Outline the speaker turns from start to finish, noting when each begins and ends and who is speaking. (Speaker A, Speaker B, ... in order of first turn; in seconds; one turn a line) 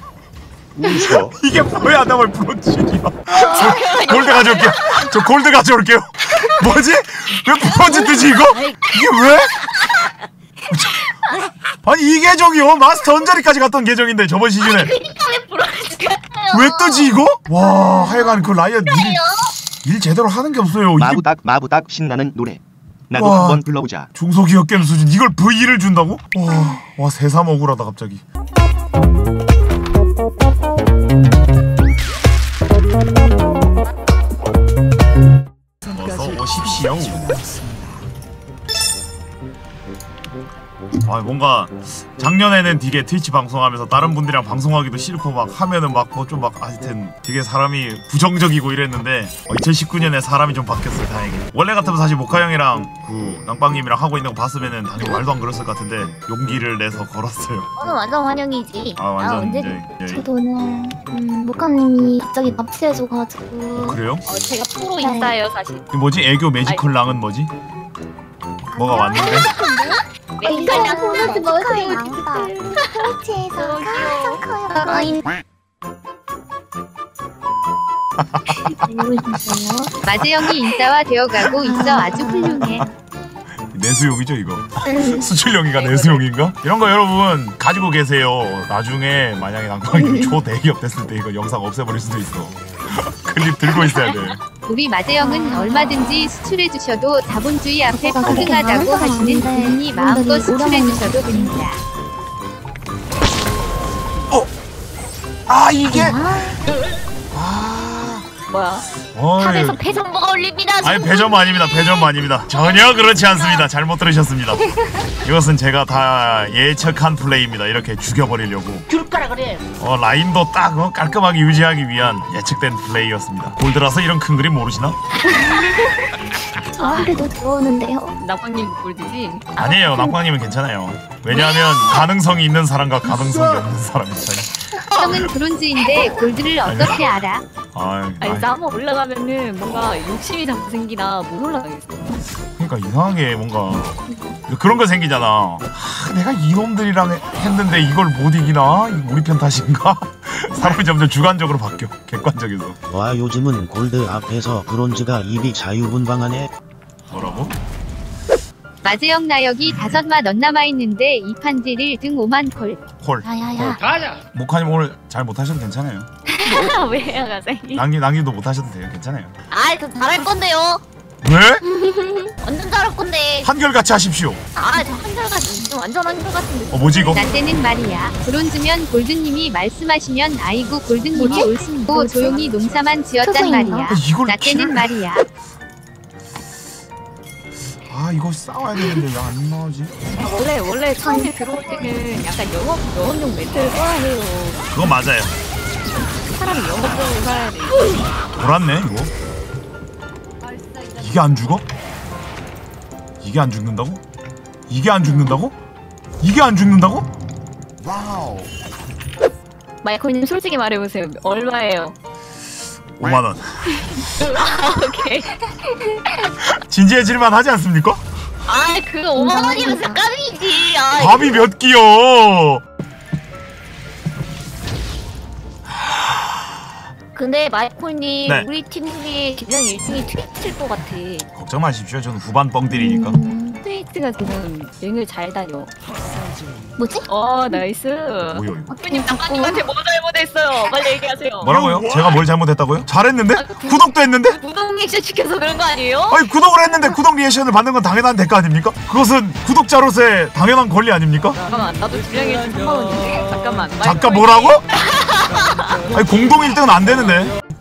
Speaker A: 0.8-1.3
Speaker B: 1.2-9.5
Speaker C: 3.3-5.2
Speaker C: 7.7-10.1
Speaker B: 10.7-11.0
Speaker C: 11.2-11.5
Speaker B: 11.8-14.9
Speaker C: 14.6-17.2
Speaker B: 16.5-19.2
Speaker C: 17.7-19.5
Speaker B: 19.8-21.3
Speaker A: 21.0-24.1
Speaker B: 23.1-28.2
Speaker D: 23.2-23.7
Speaker B: 35.9-37.3
Speaker B: 41.0-57.7
Speaker C: 57.8-59.9
Speaker B: 59.0-60.2
Speaker E: 60.1-64.0
Speaker B: 63.8-64.2
Speaker C: 64.2-65.8
Speaker E: 65.0-65.3
Speaker B: 65.9-67.5
Speaker E: 68.7-75.3
Speaker B: 68.8-69.5
Speaker C: 70.4-73.0
Speaker C: 73.6-74.4
Speaker B: 78.2-78.7
Speaker E: 78.7-79.9
Speaker F: 80.0-82.8
Speaker E: 81.6-82.6
Speaker B: 82.5-82.8
Speaker B: 83.7-94.4
Speaker E: 84.8-85.2
Speaker C: 85.7-86.2
Speaker E: 90.0-90.3
Speaker C: 93.9-94.3
Speaker F: 94.6-101.8
Speaker E: 95.2-96.3
Speaker E: 97.9-101.6
Speaker B: 105.5-106.2
Speaker E: 105.9-106.6
Speaker B: 107.3-108.2
Speaker C: 108.5-111.7
Speaker B: 109.1-109.8
Speaker B: 110.8-114.6
Speaker C: 112.5-113.7
Speaker B: 115.2-118.9
Speaker B: 119.8-125.0
Speaker E: 125.5-125.7
Speaker C: 126.7-127.2
Speaker E: 126.8-128.2
Speaker C: 128.2-129.8
Speaker B: 129.6-135.2
Speaker C: 131.3-132.0
Speaker F: 134.9-137.4
Speaker B: 136.6-137.1
Speaker B: 137.7-138.5
Speaker C: 138.2-142.0
Speaker B: 142.6-143.9
Speaker B: 144.5-152.8
Speaker D: 152.9-156.5
Speaker B: 157.1-157.5
Speaker F: 158.8-162.8
Speaker B: 163.0-163.8
Speaker E: 163.5-163.7
Speaker B: 164.3-166.1
Speaker C: 166.3-167.8
Speaker B: 167.7-169.3
Speaker C: 169.5-170.8
Speaker B: 171.2-171.6
Speaker E: 171.8-172.1
Speaker C: 172.4-173.5
Speaker B: 173.4-174.4
Speaker C: 174.6-177.5
Speaker B: 176.7-177.2
Speaker F: 177.2-185.2
Speaker E: 181.1-181.9
Speaker C: 181.2-183.2
Speaker E: 183.2-184.0
Speaker B: 183.9-184.9
Speaker B: 187.9-189.9
Speaker C: 190.2-194.6
Speaker E: 191.0-191.9
Speaker B: 194.7-195.3
Speaker C: 196.3-198.0
Speaker B: 198.4-199.1
Speaker B: 200.9-201.6
Speaker B: 203.2-204.0
Speaker B: 204.7-205.5
Speaker B: 206.2-207.1
Speaker C: 209.8-211.9
Speaker B: 213.0-213.5
Speaker C: 213.8-215.3
Speaker B: 216.5-218.0
Speaker C: 218.4-221.4
Speaker E: 219.2-220.0
Speaker B: 220.9-222.6
Speaker C: 227.1-231.3
Speaker B: 231.3-233.2
Speaker E: 232.7-233.6
Speaker C: 233.6-235.7
Speaker E: 236.8-237.6
Speaker C: 237.1-241.6
Speaker B: 238.3-238.7
Speaker E: 238.7-239.6
Speaker B: 241.4-244.4
Speaker C: 243.3-246.2
Speaker B: 246.1-251.4
Speaker C: 251.3-256.0
Speaker B: 253.8-254.6
Speaker B: 255.9-257.3